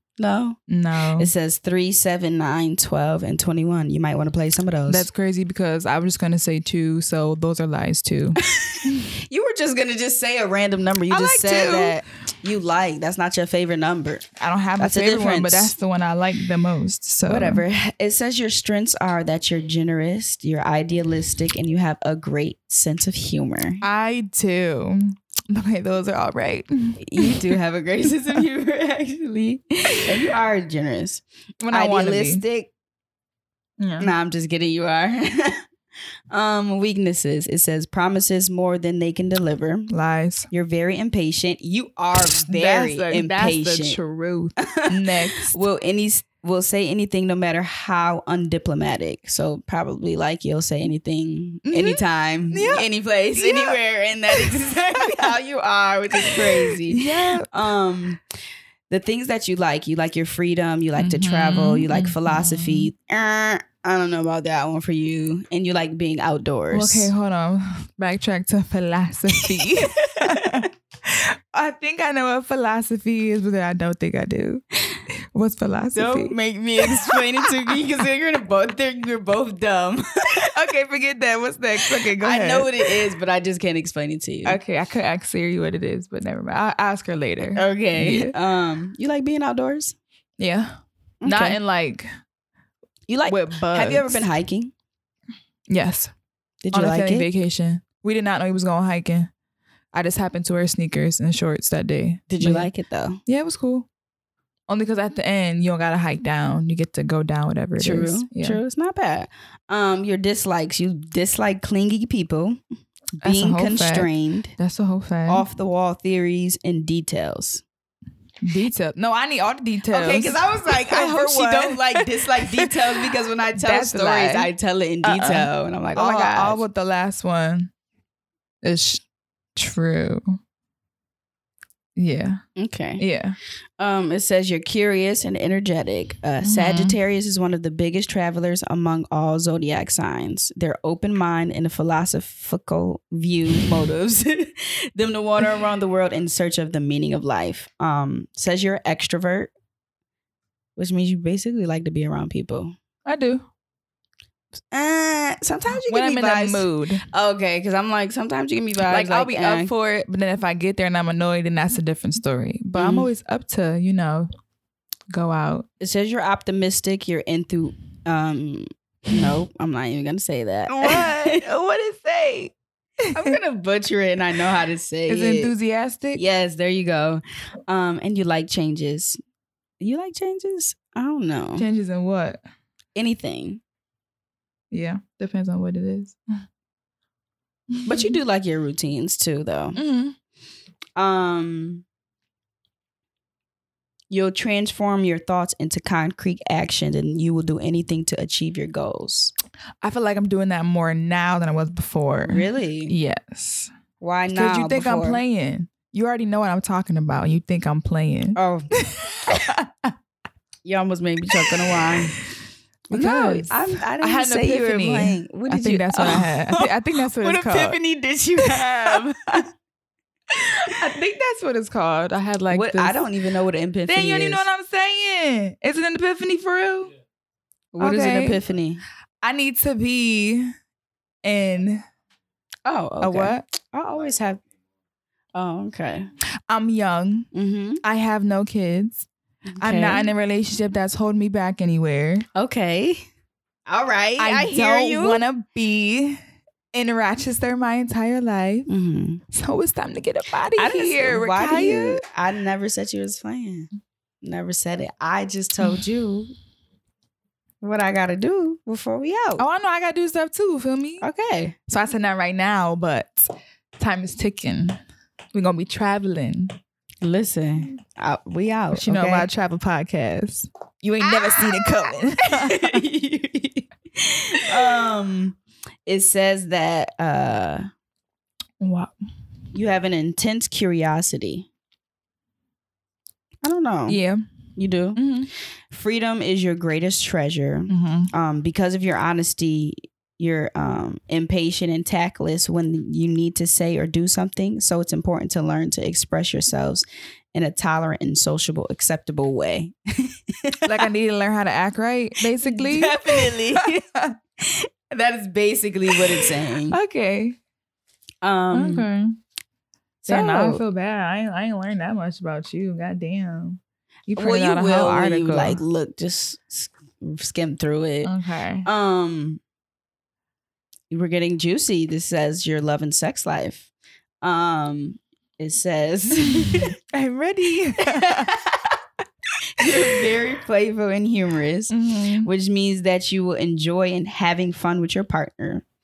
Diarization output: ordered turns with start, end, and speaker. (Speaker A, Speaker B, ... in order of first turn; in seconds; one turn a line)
Speaker A: 0.2-0.6
Speaker B: 0.7-1.3
Speaker A: 1.2-5.1
Speaker B: 4.9-9.1
Speaker A: 8.5-14.3
Speaker B: 11.1-12.0
Speaker B: 14.4-17.6
Speaker A: 14.8-15.7
Speaker A: 17.2-23.8
Speaker B: 23.8-27.6
Speaker A: 27.0-32.7
Speaker B: 31.6-32.4
Speaker B: 33.8-34.1
Speaker A: 34.0-35.6
Speaker A: 36.3-39.9
Speaker B: 39.9-40.5
Speaker A: 40.5-44.0
Speaker B: 42.4-45.6
Speaker A: 44.6-58.2
Speaker B: 51.6-52.0
Speaker B: 52.5-53.8
Speaker B: 54.3-55.3
Speaker B: 56.2-57.7
Speaker A: 58.9-67.1
Speaker B: 61.0-62.9
Speaker B: 66.7-74.6
Speaker A: 69.6-70.6
Speaker B: 75.3-77.8
Speaker A: 75.9-80.5
Speaker B: 80.5-83.0
Speaker A: 81.8-84.6
Speaker B: 84.5-88.3
Speaker A: 87.5-90.0
Speaker B: 90.4-92.1
Speaker A: 91.2-91.6
Speaker A: 93.1-94.7
Speaker B: 93.3-94.3
Speaker B: 95.7-96.1
Speaker A: 96.6-97.3
Speaker B: 96.7-99.3
Speaker B: 99.9-102.7
Speaker A: 102.3-103.2
Speaker B: 103.3-103.9
Speaker B: 104.7-108.6
Speaker A: 107.8-112.6
Speaker A: 113.2-114.5
Speaker B: 113.2-115.4
Speaker A: 115.3-117.6
Speaker B: 118.4-123.0
Speaker A: 119.9-126.6
Speaker B: 123.5-124.5
Speaker B: 125.0-127.7
Speaker B: 128.6-129.0
Speaker B: 129.6-130.3
Speaker B: 131.9-132.4
Speaker A: 132.6-133.0
Speaker B: 133.0-133.4
Speaker A: 133.8-149.5
Speaker B: 136.4-136.9
Speaker A: 150.8-152.7
Speaker B: 153.0-153.4
Speaker A: 154.7-159.7
Speaker B: 155.7-157.0
Speaker B: 158.9-164.3
Speaker A: 162.7-163.1
Speaker B: 165.1-165.7
Speaker A: 165.8-171.4
Speaker B: 170.7-173.4
Speaker A: 173.1-175.5
Speaker B: 175.1-176.2
Speaker A: 176.1-179.2
Speaker A: 179.8-181.6
Speaker B: 181.6-182.4
Speaker A: 182.9-183.6
Speaker B: 184.7-186.2
Speaker B: 187.7-188.1
Speaker A: 187.8-189.8
Speaker B: 189.7-190.2
Speaker A: 191.0-191.8
Speaker A: 194.1-199.3
Speaker B: 199.8-203.7
Speaker A: 202.2-202.9
Speaker A: 204.0-205.2
Speaker B: 204.3-209.9
Speaker A: 208.3-208.7
Speaker A: 210.6-212.2
Speaker B: 211.4-211.9
Speaker B: 212.9-217.8
Speaker A: 212.9-219.5
Speaker B: 218.4-219.0
Speaker B: 220.6-223.0
Speaker A: 222.5-224.4
Speaker B: 223.9-226.9
Speaker A: 227.7-228.8
Speaker B: 227.8-228.4
Speaker B: 229.2-230.5
Speaker B: 231.2-231.8
Speaker A: 232.7-234.4
Speaker B: 233.0-233.4
Speaker A: 235.3-236.1
Speaker B: 236.5-237.3
Speaker A: 237.3-237.8
Speaker B: 237.8-239.1
Speaker A: 239.5-240.1
Speaker B: 239.6-242.2
Speaker A: 242.3-243.0
Speaker A: 243.7-245.2
Speaker B: 244.2-246.2
Speaker B: 246.7-248.7
Speaker A: 248.7-249.2
Speaker B: 249.3-252.0
Speaker A: 250.6-253.7
Speaker A: 254.2-256.3
Speaker A: 257.6-259.4
Speaker B: 259.4-261.0
Speaker A: 261.0-261.6
Speaker B: 261.7-264.8
Speaker B: 265.3-266.5
Speaker A: 267.0-269.3
Speaker B: 268.7-272.8
Speaker A: 271.0-277.7
Speaker B: 278.6-278.9
Speaker A: 279.5-281.5
Speaker A: 283.4-284.0
Speaker B: 283.9-284.2
Speaker A: 284.6-285.0
Speaker B: 284.9-285.3
Speaker A: 285.7-300.8
Speaker B: 287.7-288.1
Speaker B: 300.6-304.1
Speaker A: 302.4-303.8
Speaker A: 304.4-306.8
Speaker B: 305.9-307.4
Speaker A: 308.2-308.9
Speaker B: 308.5-309.1
Speaker A: 310.0-310.6
Speaker B: 310.1-315.6
Speaker A: 314.1-318.1
Speaker B: 318.0-318.7
Speaker A: 318.6-319.4
Speaker A: 320.9-323.7
Speaker A: 324.2-326.7
Speaker B: 326.4-328.3
Speaker A: 327.8-328.8
Speaker A: 329.6-335.6
Speaker B: 329.6-330.0
Speaker B: 331.7-332.3